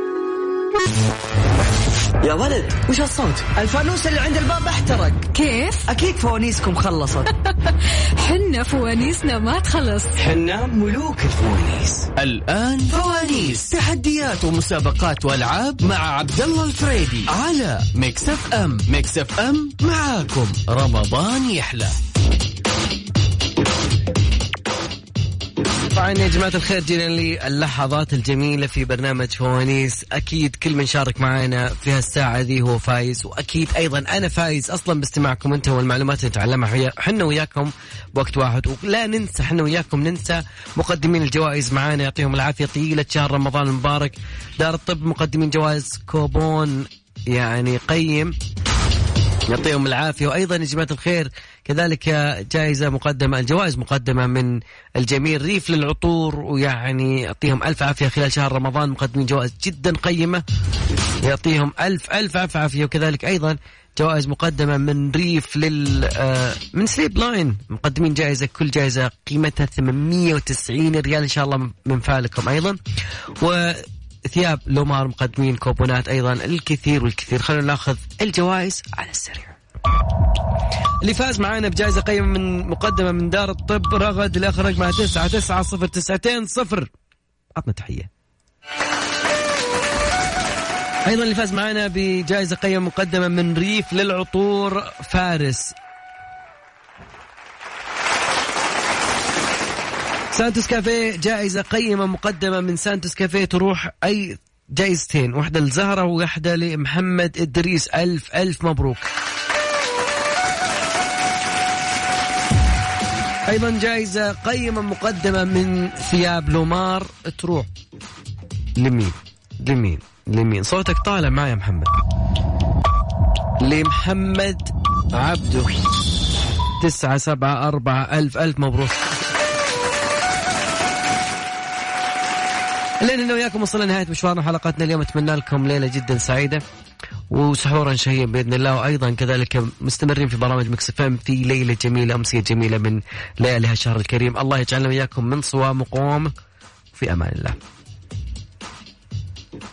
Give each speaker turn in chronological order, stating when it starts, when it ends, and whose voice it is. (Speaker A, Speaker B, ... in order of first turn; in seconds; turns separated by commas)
Speaker A: 2.2-5.2, Speaker B: 5.3-5.8, Speaker A: 5.8-7.3, Speaker B: 7.3-10.2, Speaker C: 10.2-12.1, Speaker D: 12.2-21.9, Speaker C: 25.7-48.4, Speaker C: 49.5-60.4, Speaker C: 61.2-72.8, Speaker C: 73.4-79.6, Speaker C: 81.0-86.9, Speaker C: 87.5-88.1, Speaker C: 91.0-95.7, Speaker C: 100.3-109.1, Speaker C: 113.5-117.7, Speaker C: 118.8-121.9, Speaker C: 123.6-125.7, Speaker C: 126.8-129.2, Speaker C: 133.0-136.6, Speaker C: 137.3-146.3, Speaker C: 146.9-147.6